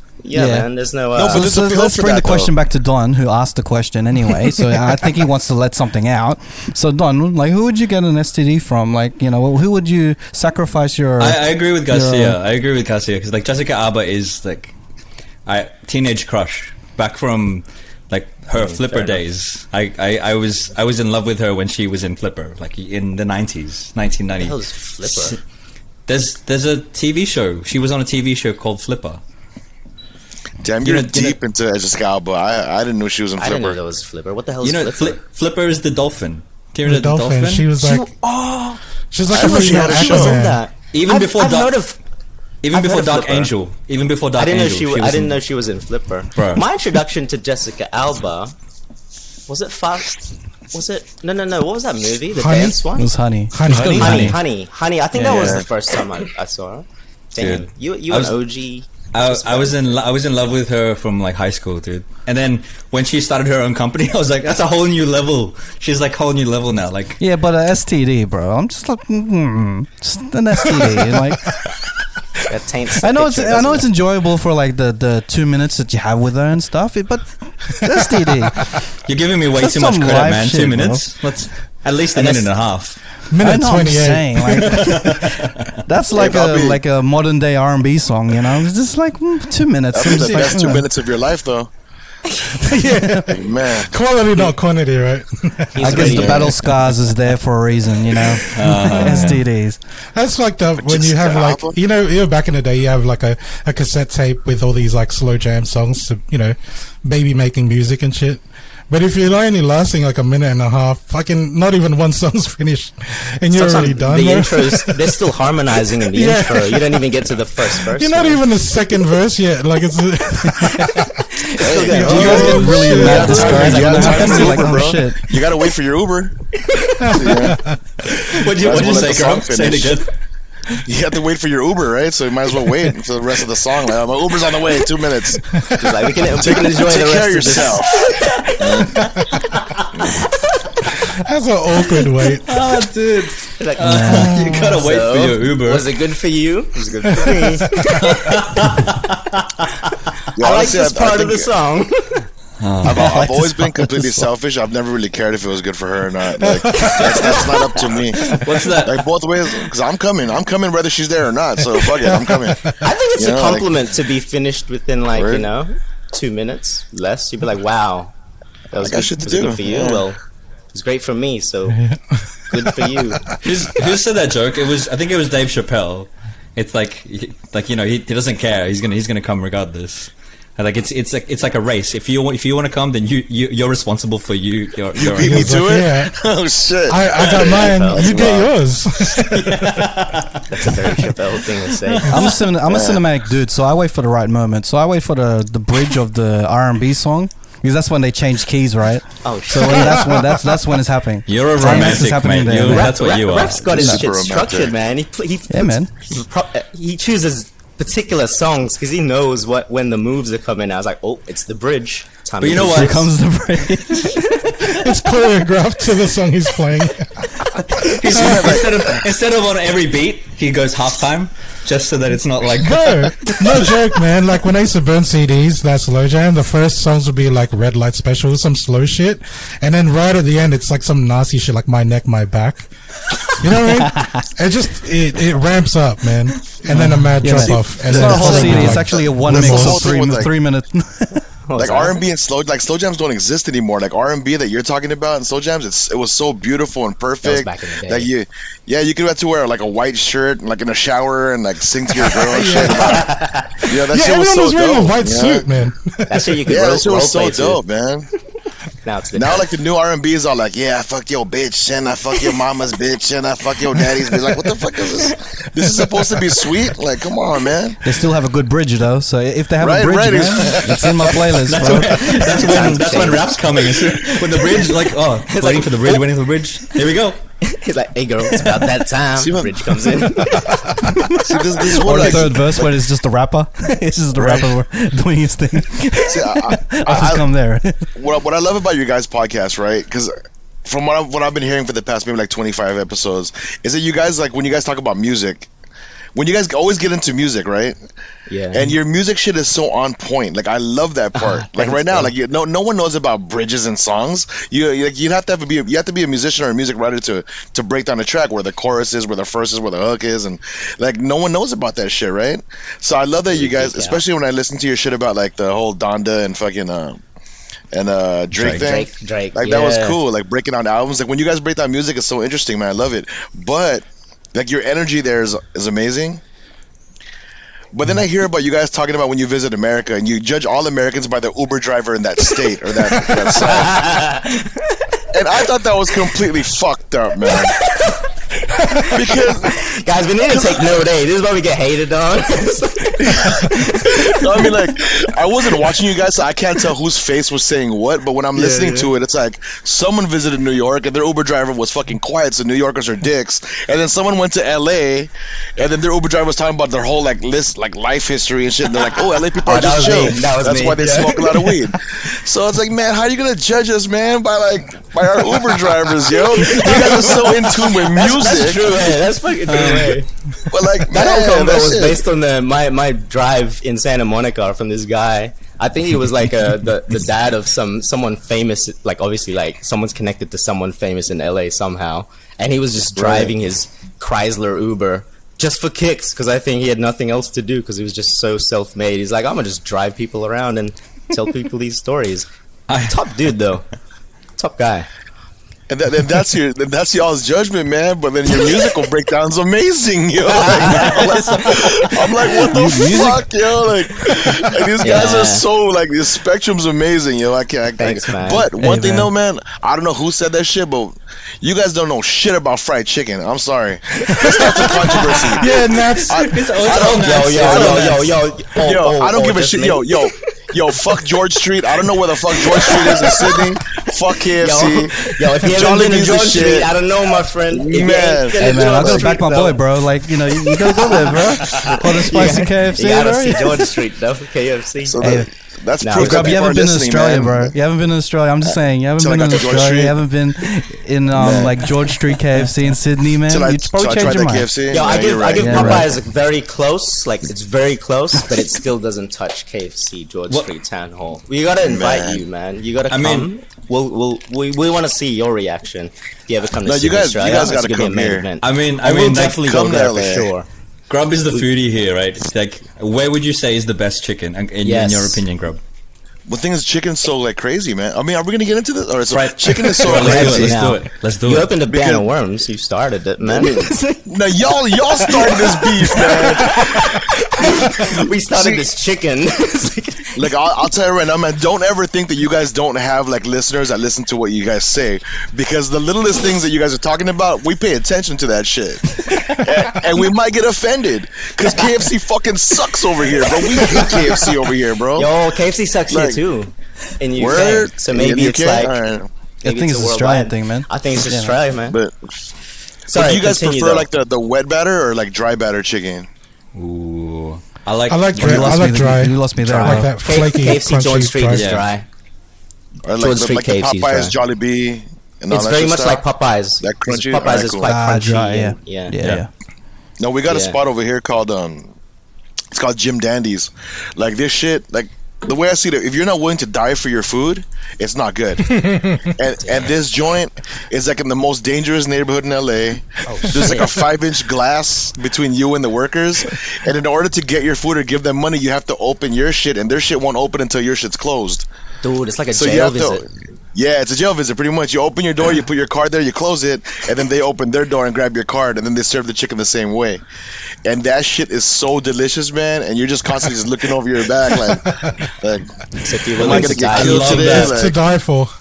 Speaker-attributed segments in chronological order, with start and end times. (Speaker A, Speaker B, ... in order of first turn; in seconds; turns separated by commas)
Speaker A: 0.2-1.5, Speaker B: 0.3-0.7, Speaker C: 1.1-2.5, Speaker B: 1.3-12.4, Speaker D: 11.2-14.8, Speaker D: 15.5-25.4, Speaker A: 18.6-19.2, Speaker A: 24.4-25.4, Speaker D: 26.1-29.2, Speaker C: 30.6-33.8, Speaker D: 30.8-31.4, Speaker A: 33.4-35.2, Speaker D: 34.6-37.7, Speaker E: 36.9-38.1, Speaker A: 37.8-42.0, Speaker E: 39.1-40.6, Speaker C: 39.4-39.9, Speaker D: 40.9-41.8, Speaker D: 42.6-45.4, Speaker A: 42.7-43.5, Speaker A: 44.4-48.5, Speaker D: 46.4-46.6, Speaker A: 49.5-50.2, Speaker A: 50.7-53.1, Speaker E: 52.4-52.8, Speaker B: 53.0-54.4, Speaker E: 53.5-54.4, Speaker A: 54.0-59.8, Speaker C: 55.2-55.7, Speaker D: 55.2-55.6, Speaker D: 57.4-58.4, Speaker D: 59.1-67.2, Speaker B: 67.2-71.5, Speaker A: 72.5-73.9, Speaker B: 73.0-78.9, Speaker D: 79.0-83.0, Speaker B: 79.6-81.0, Speaker A: 82.2-82.5, Speaker E: 83.3-84.6, Speaker B: 83.4-90.9, Speaker D: 84.5-85.7, Speaker C: 86.1-86.8, Speaker C: 89.9-91.7, Speaker E: 92.6-96.2, Speaker C: 93.3-94.0, Speaker A: 95.8-96.7, Speaker B: 95.8-99.8, Speaker C: 95.9-96.6, Speaker D: 98.5-99.4, Speaker E: 98.9-99.4, Speaker E: 100.2-115.2, Speaker C: 100.8-101.8, Speaker A: 113.5-118.4, Speaker E: 116.1-117.1, Speaker E: 117.8-121.2, Speaker A: 121.4-124.6, Speaker C: 121.6-122.4, Speaker E: 121.8-124.5, Speaker B: 122.0-125.3, Speaker C: 122.9-126.3, Speaker A: 126.7-127.2, Speaker E: 127.0-127.8, Speaker C: 127.1-127.6, Speaker D: 128.1-130.1, Speaker C: 128.5-130.0, Speaker C: 130.8-135.6, Speaker A: 135.8-138.9, Speaker C: 136.3-139.0, Speaker E: 141.1-142.7, Speaker D: 142.5-145.9, Speaker A: 143.6-148.7, Speaker B: 143.8-144.3, Speaker E: 147.2-147.8, Speaker D: 148.2-149.4, Speaker C: 150.4-151.5, Speaker A: 150.4-152.3, Speaker D: 152.6-153.3, Speaker C: 152.8-163.7, Speaker E: 156.4-157.1, Speaker A: 156.8-158.4, Speaker D: 158.4-159.0, Speaker A: 162.8-168.1, Speaker C: 165.1-165.5, Speaker A: 168.7-170.2, Speaker C: 168.8-170.1, Speaker A: 170.7-171.8, Speaker E: 171.7-172.7, Speaker A: 172.5-173.2, Speaker D: 173.4-185.6, Speaker C: 185.0-188.6, Speaker E: 185.2-186.1, Speaker E: 186.9-189.7, Speaker A: 187.2-188.3, Speaker D: 189.2-192.1, Speaker A: 190.5-192.3, Speaker B: 192.1-202.9, Speaker C: 192.7-193.0, Speaker A: 199.2-200.2, Speaker D: 201.3-203.6, Speaker A: 201.6-202.1, Speaker A: 202.7-213.1, Speaker C: 203.7-204.8, Speaker B: 203.7-204.0, Speaker B: 205.5-205.9, Speaker D: 212.4-213.0, Speaker B: 212.7-214.2, Speaker A: 213.9-214.6, Speaker E: 214.7-218.6, Speaker D: 217.8-223.7, Speaker C: 218.1-219.0, Speaker E: 222.6-232.7, Speaker E: 233.3-239.8, Speaker B: 236.7-241.3, Speaker C: 237.8-240.3, Speaker A: 238.0-238.8, Speaker A: 241.5-242.0, Speaker C: 241.6-253.1, Speaker A: 247.2-248.1, Speaker E: 252.3-253.1, Speaker A: 252.5-253.7, Speaker C: 253.7-255.5, Speaker E: 253.9-256.4, Speaker A: 256.1-257.6, Speaker C: 256.5-258.1, Speaker A: 258.8-259.5, Speaker C: 259.1-267.8, Speaker B: 267.8-272.0, Speaker C: 269.6-271.1, Speaker D: 271.3-277.2, Speaker A: 272.0-276.0, Speaker A: 277.4-282.3, Speaker C: 279.2-279.8, Speaker C: 281.2-282.7, Speaker B: 281.8-287.9, Speaker C: 284.2-284.5, Speaker C: 286.0-287.3, Speaker C: 287.9-290.1, Speaker C: 290.6-295.5, Speaker C: 296.1-297.8, Speaker A: 298.3-298.7, Speaker C: 298.5-317.0, Speaker A: 301.2-302.1, Speaker A: 313.3-314.0, Speaker C: 317.7-326.2, Speaker D: 318.4-318.7, Speaker A: 318.6-320.0, Speaker C: 327.7-333.9, Speaker A: 333.2-334.8, Speaker C: 335.1-337.6, Speaker A: 337.3-338.0, Speaker A: 338.8-344.5, Speaker C: 338.9-339.6, Speaker C: 340.3-340.8, Speaker C: 344.1-368.7, Speaker A: 348.4-348.9, Speaker A: 359.4-361.6, Speaker A: 366.3-370.1, Speaker D: 369.5-370.0, Speaker C: 370.5-372.0, Speaker A: 370.9-392.3, Speaker C: 383.0-383.3, Speaker D: 392.7-393.0, Speaker A: 392.8-393.7, Speaker A: 394.4-394.9, Speaker C: 395.7-417.9, Speaker A: 400.3-402.5, Speaker D: 400.8-401.1, Speaker B: 402.5-403.2, Speaker A: 404.8-405.5, Speaker A: 407.8-408.5, Speaker B: 408.6-409.1, Speaker A: 414.1-415.4, Speaker E: 415.4-416.3, Speaker D: 416.1-418.2, Speaker A: 416.7-420.1, Speaker C: 418.6-426.8, Speaker A: 421.9-423.6, Speaker A: 424.3-429.6, Speaker C: 427.5-429.2, Speaker B: 428.4-433.6, Speaker A: 430.3-435.2, Speaker C: 434.8-437.5, Speaker B: 435.0-435.3, Speaker A: 435.8-436.6, Speaker B: 435.9-444.5, Speaker C: 438.4-440.0, Speaker C: 441.1-441.8, Speaker C: 443.3-445.9, Speaker A: 444.7-460.5, Speaker B: 445.4-445.9, Speaker C: 451.6-452.2, Speaker D: 452.9-453.3, Speaker C: 456.6-458.3, Speaker D: 458.4-459.5, Speaker C: 459.3-460.3, Speaker D: 460.9-465.6, Speaker A: 464.6-465.2, Speaker C: 466.3-470.7, Speaker D: 469.1-471.5, Speaker A: 469.8-474.0, Speaker C: 471.7-472.1, Speaker C: 473.2-476.9, Speaker A: 475.0-480.1, Speaker C: 478.3-478.7, Speaker C: 480.2-495.1, Speaker A: 493.2-494.3, Speaker A: 494.9-498.8, Speaker C: 495.9-496.2, Speaker C: 497.1-499.1, Speaker B: 499.4-501.4, Speaker A: 499.4-501.8, Speaker C: 501.7-502.3, Speaker A: 502.9-503.9, Speaker C: 502.9-506.1, Speaker D: 506.5-508.6, Speaker E: 507.9-511.5, Speaker B: 508.2-509.9, Speaker A: 509.6-511.9, Speaker D: 511.3-511.7, Speaker C: 512.9-516.0, Speaker A: 513.0-514.1, Speaker A: 515.3-519.0, Speaker C: 516.6-517.7, Speaker B: 517.6-519.3, Speaker C: 520.0-521.7, Speaker A: 520.3-520.6, Speaker C: 522.5-541.5, Speaker E: 528.5-529.1, Speaker A: 529.4-529.7, Speaker A: 533.1-533.8, Speaker A: 541.8-543.1, Speaker C: 542.3-550.0, Speaker C: 550.6-555.5, Speaker E: 554.7-554.9, Speaker A: 555.8-557.5, Speaker C: 556.1-557.8, Speaker D: 556.2-557.6, Speaker E: 557.4-558.3